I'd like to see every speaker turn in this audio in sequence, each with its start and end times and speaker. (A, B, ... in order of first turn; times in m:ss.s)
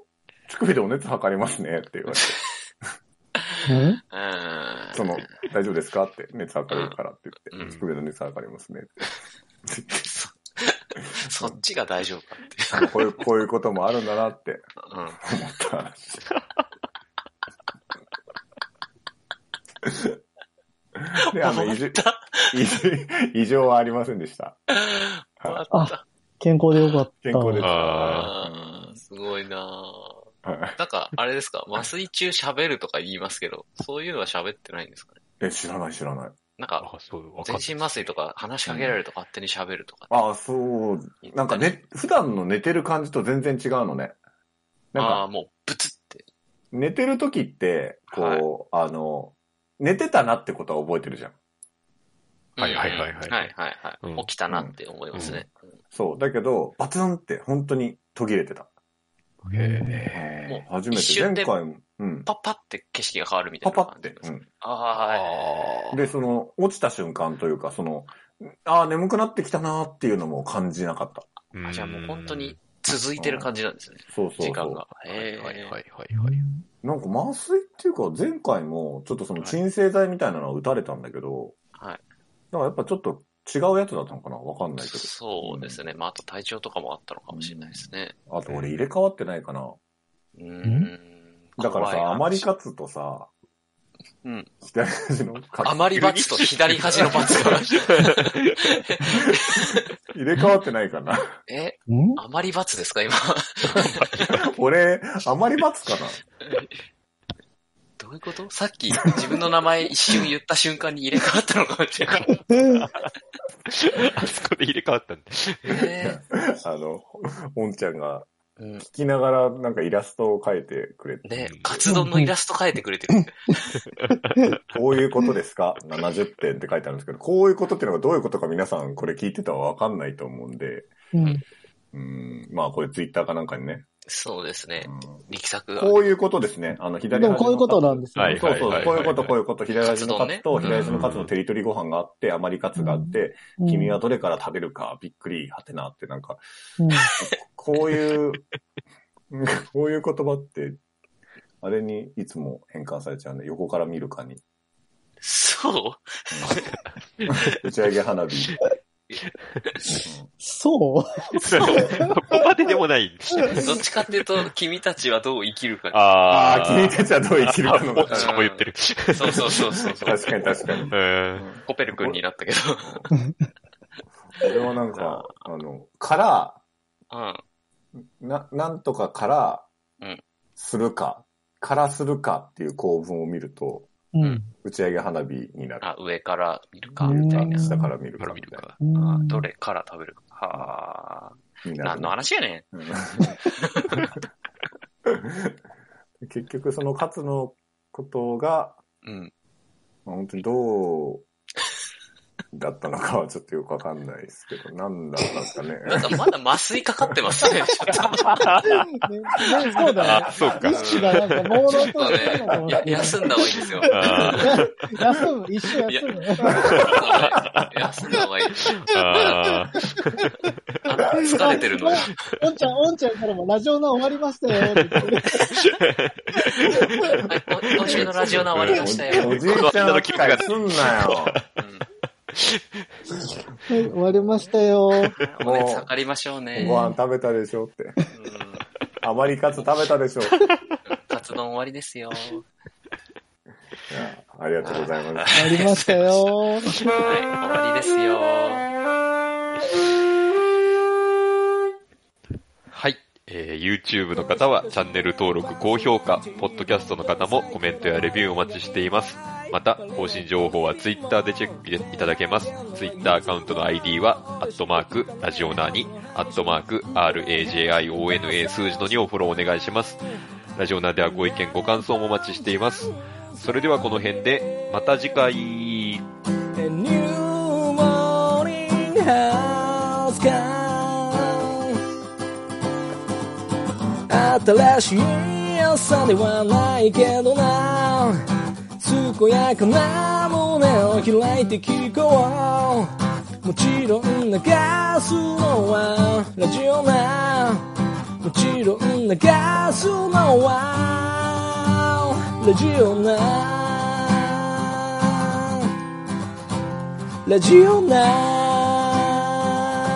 0:00.5-0:02.4 A
0:03.7-0:04.0 B
0:04.1-0:05.2 C
0:04.9-0:09.1 A
0:06.7-0:07.0 C
0:07.5-0:07.8 C
0:09.7-0:10.0 A
0:10.0-0:12.9 C
0:12.8-0:14.7 A
0:14.9-0:15.2 C
0:15.2-0:16.2 A
0:19.8-0:20.1 A
0:21.0-0:24.6 A
0:21.3-0:22.6 C
0:24.8-0:26.0 C
0:25.7-0:27.6 B
0:27.2-0:29.0 A
0:27.6-0:28.3 D
0:27.6-0:35.2 C
0:30.4-0:30.8 A
0:35.4-0:36.4 A
0:36.6-0:36.8 C
0:36.8-0:38.1 D
0:37.4-0:40.1 C
0:38.7-0:39.0 A
0:40.1-0:44.2 A
0:41.2-0:41.8 C
0:44.9-0:45.2 A
0:45.0-0:46.2 C
0:46.7-0:51.4 A
0:48.1-0:48.4 C
0:52.6-0:55.7 C
0:52.6-0:54.3 D
0:54.5-0:58.7 A
0:55.1-0:55.4 D
0:59.4-1:00.3 D
0:59.5-1:00.0 B
0:59.8-1:02.3 A
1:00.5-1:01.6 C
1:02.2-1:05.3 C
1:03.6-1:04.5 A
1:04.9-1:06.0 D
1:05.9-1:11.3 A
1:11.5-1:12.6 D
1:11.6-1:15.8 C
1:13.2-1:13.5 A
1:14.1-1:14.8 A
1:14.9-1:16.4 D
1:16.1-1:16.5 B
1:16.8-1:21.5 A
1:22.5-1:25.8 A
1:24.8-1:28.8 C
1:27.3-1:29.8 A
1:30.4-1:32.5 C
1:30.7-1:30.9 B
1:31.6-1:33.3 A
1:34.2-1:34.5 C
1:34.6-1:36.0 A
1:35.6-1:39.8 C
1:36.0-1:38.5 D
1:36.8-1:37.6 A
1:40.1-1:41.3 A
1:41.5-1:44.3 C
1:41.9-1:42.2 B
1:43.7-1:46.2 A
1:46.4-1:46.7 C
1:48.0-1:52.6 C
1:52.2-1:52.9 D
1:53.7-1:55.8 D
1:55.7-1:56.2 C
1:56.0-1:58.3 A
1:58.6-1:58.8 C
1:58.8-2:01.3 A
2:01.2-2:03.7 C
2:01.4-2:01.9 D
2:01.9-2:02.3 B
2:04.7-2:10.9 A
2:11.1-2:11.4 B
2:11.9-2:13.8 A
2:14.1-2:16.0 C
2:14.8-2:15.2 A
2:15.8-2:26.4 A
2:17.1-2:18.8 B
2:18.2-2:19.4 D
2:19.8-2:21.1 C
2:20.6-2:21.3 D
2:22.8-2:24.0 B
2:26.8-2:27.1 B
2:27.2-2:28.4 A
2:29.3-2:30.8 A
2:31.6-2:34.4 A
2:35.2-2:36.6 C
2:37.4-2:38.7 A
2:40.0-2:40.3 A
2:40.4-2:42.1 B
2:41.4-2:41.9 C
2:41.4-2:43.8 D
2:43.6-2:46.7 C
2:45.9-2:49.6 D
2:46.3-2:48.4 A
2:48.1-2:50.9 C
2:50.0-2:52.2 A
2:50.9-2:51.5 D
2:51.6-2:53.0 C
2:52.8-2:53.1 A
2:54.4-2:56.6 A
2:54.9-2:55.3 C
2:57.1-2:57.4 C
2:58.2-2:59.7 A
3:00.6-3:03.9 A
3:04.1-3:04.5 B
3:04.6-3:05.9 A
3:05.8-3:07.8 C
3:07.0-3:08.6 A
3:07.0-3:07.9 B
3:08.2-3:08.8 D
3:08.8-3:09.5 B
3:09.0-3:12.6 C
3:11.6-3:12.2 A
3:12.7-3:13.4 A
3:15.1-3:15.5 A
3:16.2-3:18.8 A
3:19.0-3:19.3 C
3:20.1-3:21.2 A
3:22.5-3:26.2 A
3:25.8-3:28.5 C
3:28.3-3:28.8 D
3:28.7-3:36.7 B
3:29.9-3:30.7 A
3:30.0-3:32.2 D
3:30.0-3:34.6 C
3:32.4-3:33.4 A
3:33.9-3:35.0 D
3:34.0-3:34.4 A
3:35.9-3:38.9 C
3:36.5-3:37.5 A
3:36.5-3:37.7 D
3:38.5-3:40.1 D
3:40.7-3:41.5 D
3:40.9-3:42.2 C
3:41.3-3:45.4 B
3:44.7-3:51.4 D
3:47.3-3:49.7 C
3:47.8-3:51.4 A
3:51.6-3:51.9 C
3:52.4-3:52.6 D
3:53.7-3:55.2 B
3:54.2-3:54.5 C
3:55.2-3:56.8 C
3:55.4-3:55.9 A
3:56.6-3:58.0 A
3:56.6-3:57.0 B
3:58.1-3:58.6 C
3:59.0-4:00.4 A
4:00.9-4:02.5 C
4:03.9-4:05.6 A
4:04.6-4:06.3 C
4:05.4-4:07.0 B
4:07.0-4:08.7 C
4:12.7-4:30.0 D
4:30.6-4:36.0 D
4:37.4-4:41.2 E
4:44.1-4:48.2 E
4:44.1-4:45.1 B
4:46.2-4:47.5 B
4:48.8-4:52.9 E
4:49.2-4:52.8 B
4:53.4-4:57.6 B
4:53.5-4:57.6 E
4:58.2-5:01.6 E
4:58.3-5:00.9 B
5:02.2-5:04.2 E
5:02.4-5:03.5 B
5:07.3-5:09.1 E